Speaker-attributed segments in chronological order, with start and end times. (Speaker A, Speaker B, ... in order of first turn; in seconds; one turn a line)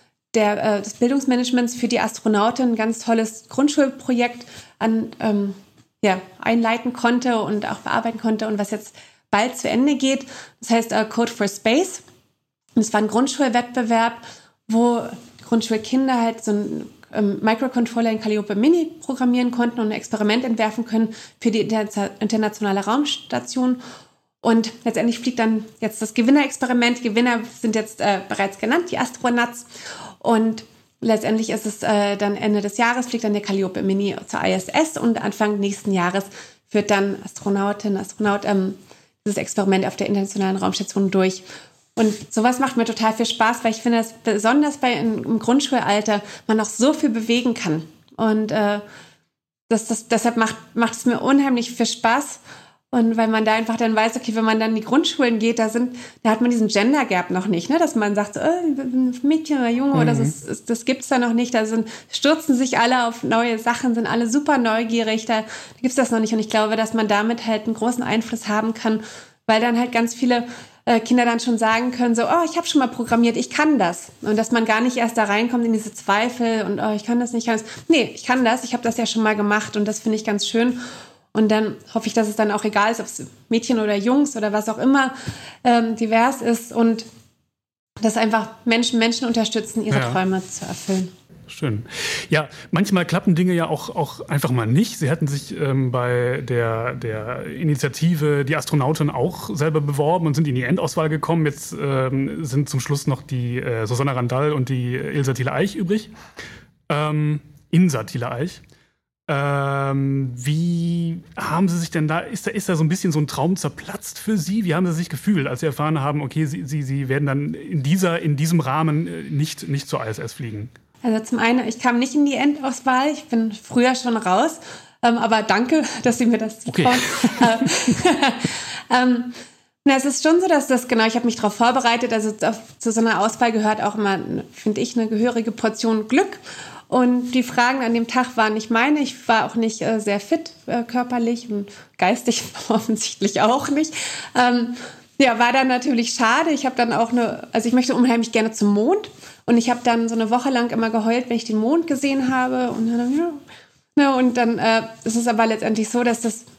Speaker A: 0.3-12.0
Speaker A: 12.8-23.8
Speaker A: 24.4-29.7
Speaker A: 30.2-41.4
Speaker A: 42.0-48.8
Speaker A: 49.7-52.4
Speaker A: 52.9-87.1
Speaker B: 60.0-60.3
Speaker A: 88.0-91.1
Speaker B: 89.9-90.2
Speaker B: 91.5-106.1
Speaker B: 106.9-108.6
Speaker B: 109.3-120.7
Speaker A: 121.0-153.4
Speaker B: 126.7-127.7
Speaker A: 154.0-156.5